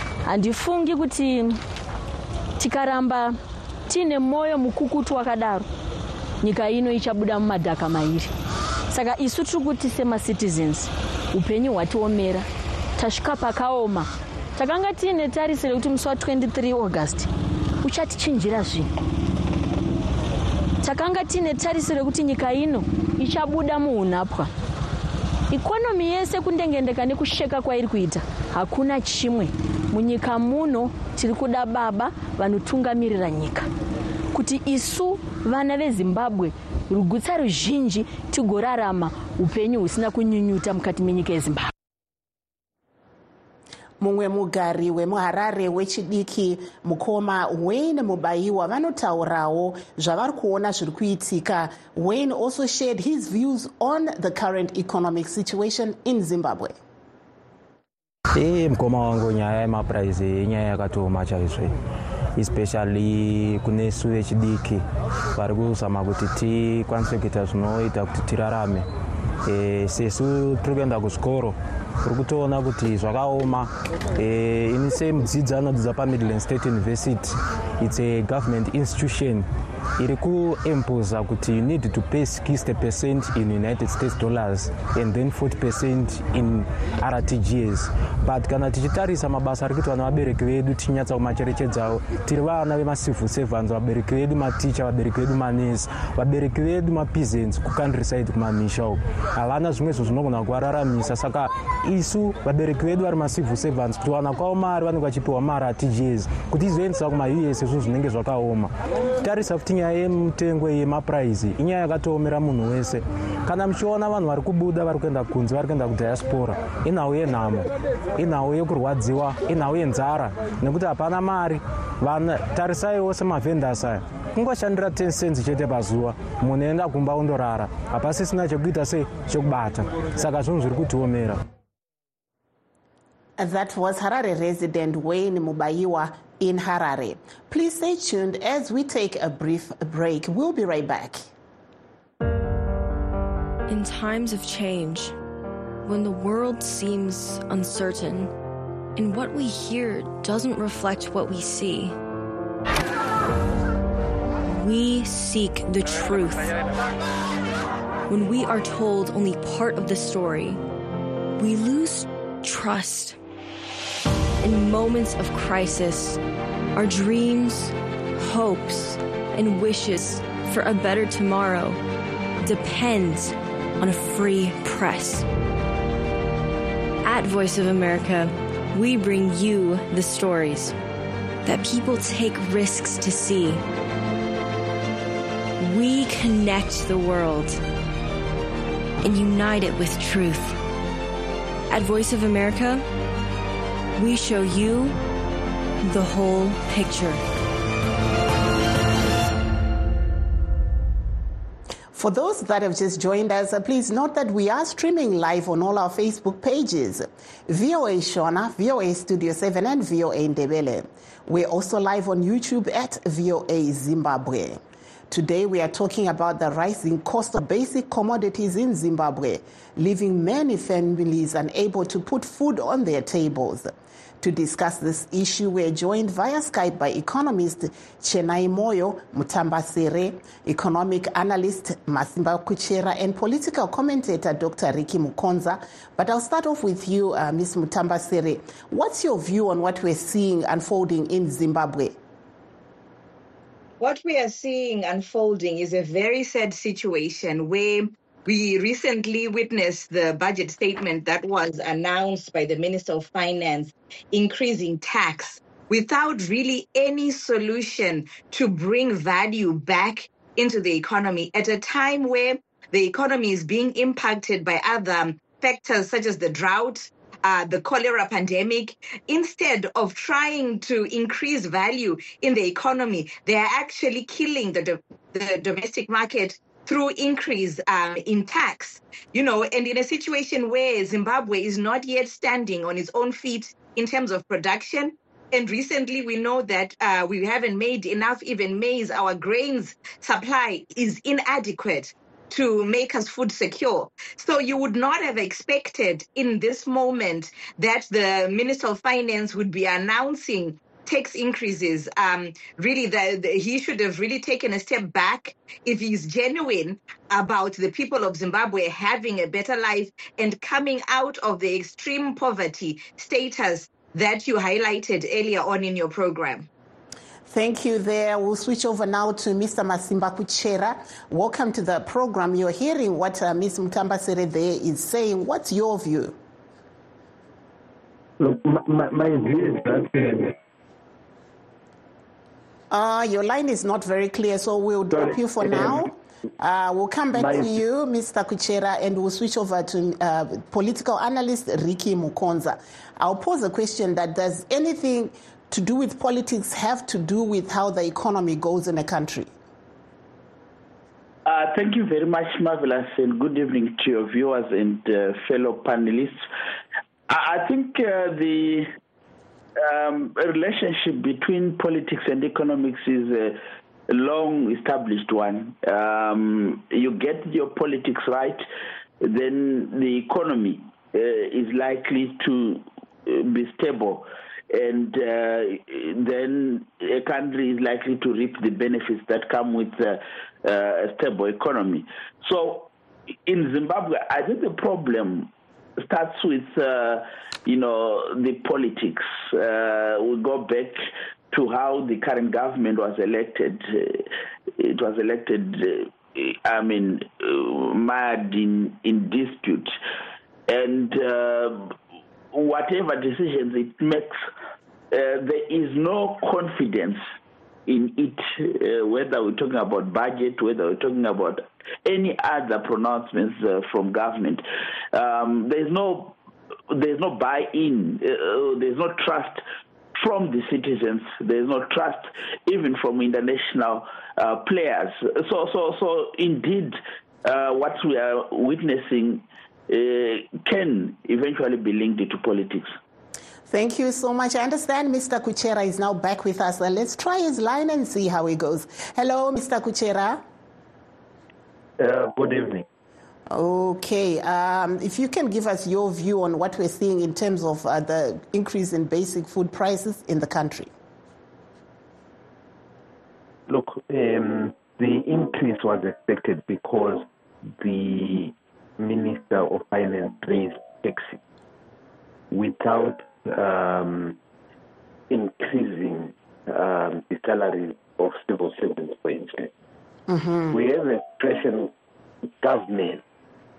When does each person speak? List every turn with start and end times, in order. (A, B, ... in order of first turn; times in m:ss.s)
0:00.2-0:01.6 A
0:02.6-0:03.4 A
0:03.9-0:05.6 A
0:06.4-0:08.3 A
0:08.9-0:12.4 A
0:13.0-0:17.3 A
0:17.8-0:18.9 A
0:20.8-0:24.5 A
0:25.5-0:33.7 A
0:34.3-0:41.7 A
0:44.0-0:56.8 B
0:58.3-1:01.7 C
1:02.4-1:04.8 C
1:05.3-1:08.8 C
1:09.4-1:19.4 C
1:20.0-2:11.4 C
2:13.4-2:21.2 B
2:23.7-2:25.1 D
2:25.8-2:28.3 D
2:29.0-2:32.0 D
2:34.4-2:36.6 D
2:38.1-2:40.6 D
2:41.4-2:43.2 D
2:44.4-2:46.2 D
2:46.7-2:51.8 D
2:52.4-2:55.3 D
2:57.0-3:00.8 D
3:01.4-3:03.6 D
3:05.6-3:07.6 D
3:09.0-3:10.6 D
3:11.7-3:12.8 D
3:14.0-3:15.0 D
3:15.8-3:17.2 D
3:21.9-4:02.0 B
4:03.8-5:16.5 E
5:17.3-5:26.2 B
5:28.2-5:30.2 F
5:32.7-5:49.3 B
5:37.2-5:37.4 F
5:51.2-5:56.2 G
5:57.1-5:58.7 G
5:59.6-6:08.4 G
6:09.0-6:22.7 G
6:23.2-6:39.7 G
6:40.5-6:41.8 G
6:42.3-6:44.2 G
6:44.9-6:47.0 G
6:47.7-6:56.2 G
6:56.7-6:59.4 G
7:00.0-7:12.7 G
7:13.5-7:20.2 B
7:21.8-7:22.6 F
7:23.3-7:30.7 B
7:33.5-7:37.0 F
7:37.6-7:41.2 F
7:42.3-7:44.2 F
7:45.1-7:49.5 F
7:50.1-7:50.6 B
7:50.5-7:51.7 F
7:52.4-7:53.0 F